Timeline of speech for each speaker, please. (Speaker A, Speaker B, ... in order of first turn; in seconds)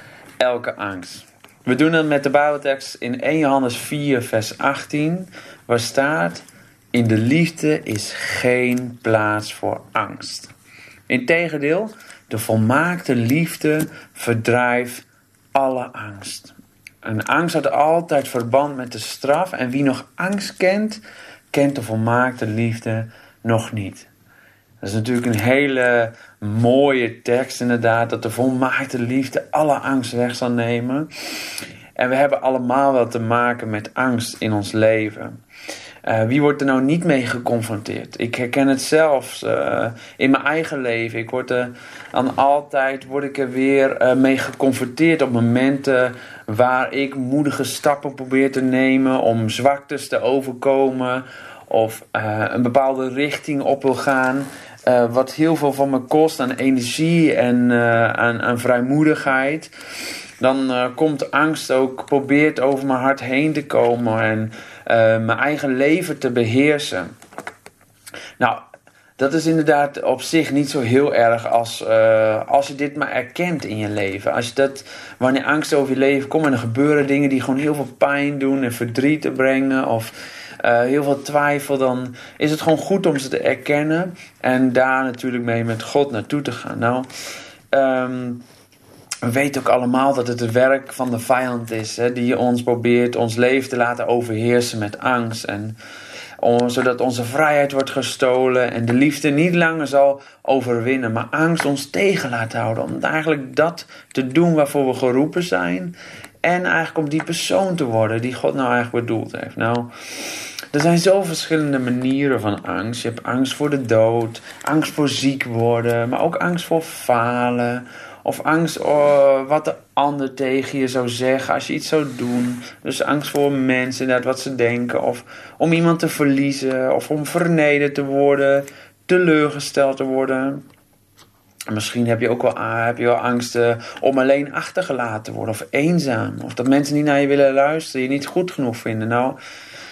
Speaker A: 0.4-10.5, 11.1-21.0, 21.5-24.1, 24.8-35.4, 36.0-59.7, 60.4-67.1, 68.4-68.6, 69.2-87.1, 87.7-88.5, 89.2-95.8, 96.4-130.7, 131.7-139.4